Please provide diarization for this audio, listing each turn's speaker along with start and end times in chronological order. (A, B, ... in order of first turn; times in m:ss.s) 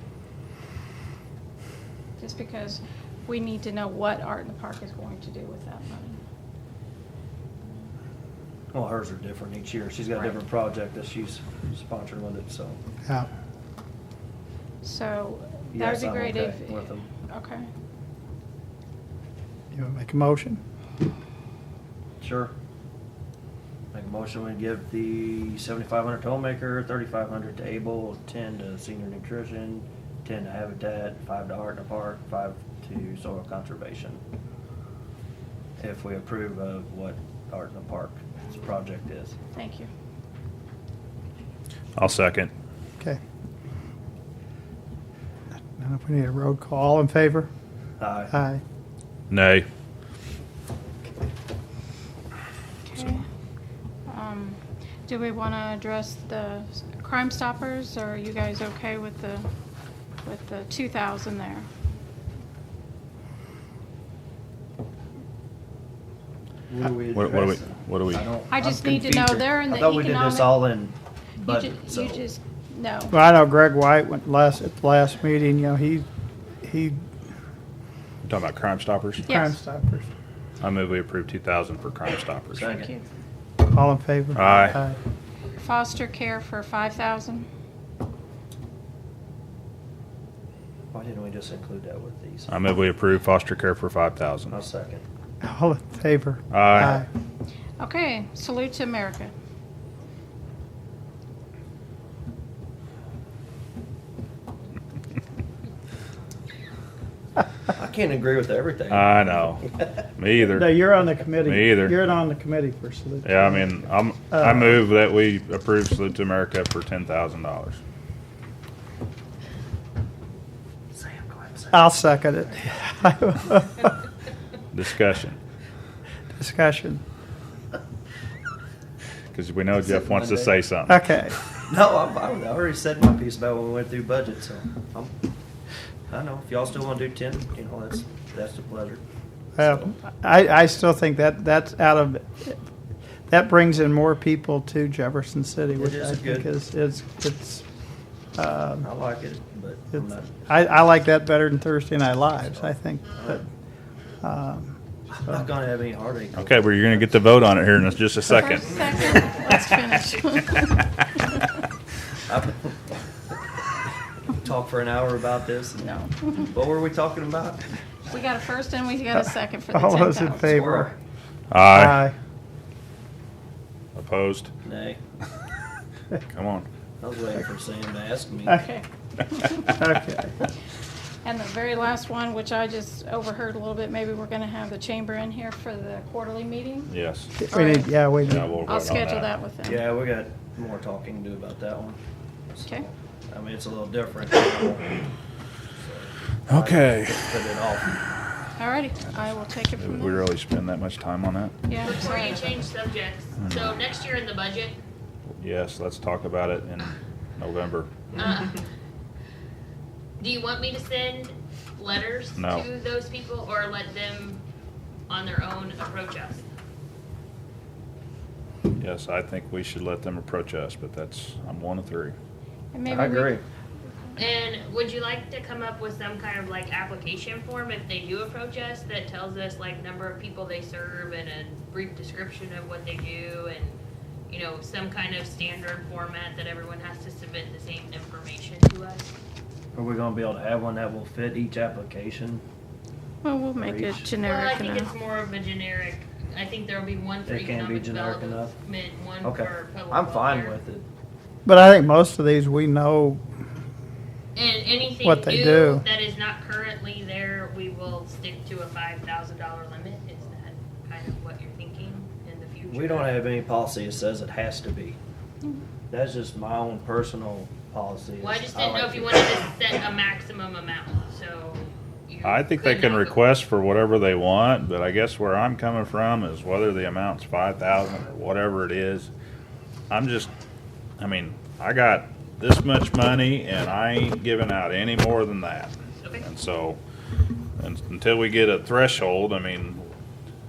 0:02.2-0:06.2 A
0:08.7-0:12.8 B
0:14.8-0:17.7 A
0:15.7-0:17.0 B
0:19.7-0:20.6 C
0:22.2-0:22.5 B
0:23.9-0:34.2 B
0:35.8-0:39.4 B
0:39.5-0:39.9 A
0:42.0-0:42.5 D
0:45.6-0:47.5 C
0:48.0-0:48.3 B
0:48.3-0:48.6 C
0:49.3-0:49.7 D
0:52.9-0:53.2 A
0:54.1-0:59.5 A
1:00.2-1:01.7 A
1:06.7-1:12.3 B
1:07.1-1:08.3 D
1:08.5-1:10.7 A
1:11.4-1:13.2 A
1:13.1-1:16.1 C
1:16.6-1:17.0 C
1:18.2-1:19.3 D
1:19.3-1:19.6 A
1:19.3-1:20.1 C
1:20.6-1:22.8 D
1:22.6-1:22.9 B
1:22.8-1:23.0 A
1:23.7-1:25.0 C
1:24.4-1:24.8 D
1:25.6-1:27.5 A
1:30.9-1:32.6 B
1:32.5-1:34.6 D
1:34.5-1:35.0 B
1:35.4-1:37.1 C
1:36.5-1:37.0 D
1:37.8-1:39.3 A
1:47.7-1:49.3 B
1:48.9-1:50.8 D
1:50.5-1:53.8 C
1:51.4-1:52.0 D
1:53.2-1:57.8 D
1:54.3-1:54.8 C
2:00.9-2:01.8 B
2:01.7-2:03.9 C
2:04.7-2:05.4 D
2:06.4-2:07.0 C
2:09.3-2:11.0 D
2:09.8-2:10.6 B
2:10.9-2:11.4 C
2:11.6-2:15.1 B
2:16.1-2:19.0 B
2:19.6-2:22.6 C
2:19.6-2:19.9 B
2:23.3-2:27.7 C
2:25.8-2:26.5 B
2:28.4-2:28.9 C
2:28.8-2:30.4 B
2:29.9-2:33.4 C
2:32.6-2:33.4 B
2:34.2-2:34.8 C
2:35.1-2:37.0 B
2:36.4-2:38.8 D
2:38.3-2:40.8 A
2:42.3-2:42.9 B
2:44.3-2:47.7 B
2:45.8-2:46.5 A
2:48.1-2:50.6 A
2:49.7-2:50.9 C
2:50.3-2:51.0 B
2:51.5-2:52.0 D
2:51.7-2:52.2 C
2:54.0-2:54.5 D
2:54.6-2:55.0 B
2:56.3-2:56.7 D
2:57.0-2:58.6 B
2:58.5-2:58.8 A
2:59.4-2:59.6 A
2:59.8-3:00.3 C
3:01.2-3:06.9 A
3:06.9-3:07.3 D
3:07.4-3:08.5 C
3:07.5-3:09.8 A
3:08.2-3:09.3 D
3:09.6-3:12.0 B
3:12.5-3:15.1 B
3:15.8-3:18.0 B
3:16.5-3:17.3 D
3:18.6-3:20.2 A
3:19.8-3:21.6 D
3:21.7-3:22.6 A
3:21.8-3:24.8 E
3:23.4-3:23.7 D
3:25.4-3:28.1 D
3:28.1-3:28.6 E
3:30.2-3:34.4 E
3:32.4-3:32.6 D
3:35.1-3:36.5 E
3:38.8-3:42.2 D
3:42.7-3:43.4 A
3:42.9-3:43.4 B
3:44.2-3:53.8 E
3:54.3-3:59.2 E
3:59.8-4:02.4 B
4:03.2-4:04.9 A
4:03.6-4:04.1 B
4:04.2-4:10.6 E
4:07.2-4:08.6 B
4:09.2-4:10.8 B
4:11.5-4:13.2 C
4:14.4-4:23.2 E
4:15.0-4:15.8 C
4:22.7-4:25.0 B
4:25.9-4:29.4 B
4:28.2-4:33.2 E
4:32.2-4:39.1 D
4:39.9-4:40.3 D
4:41.0-4:46.8 D
4:46.0-4:46.2 E
4:47.6-4:49.9 D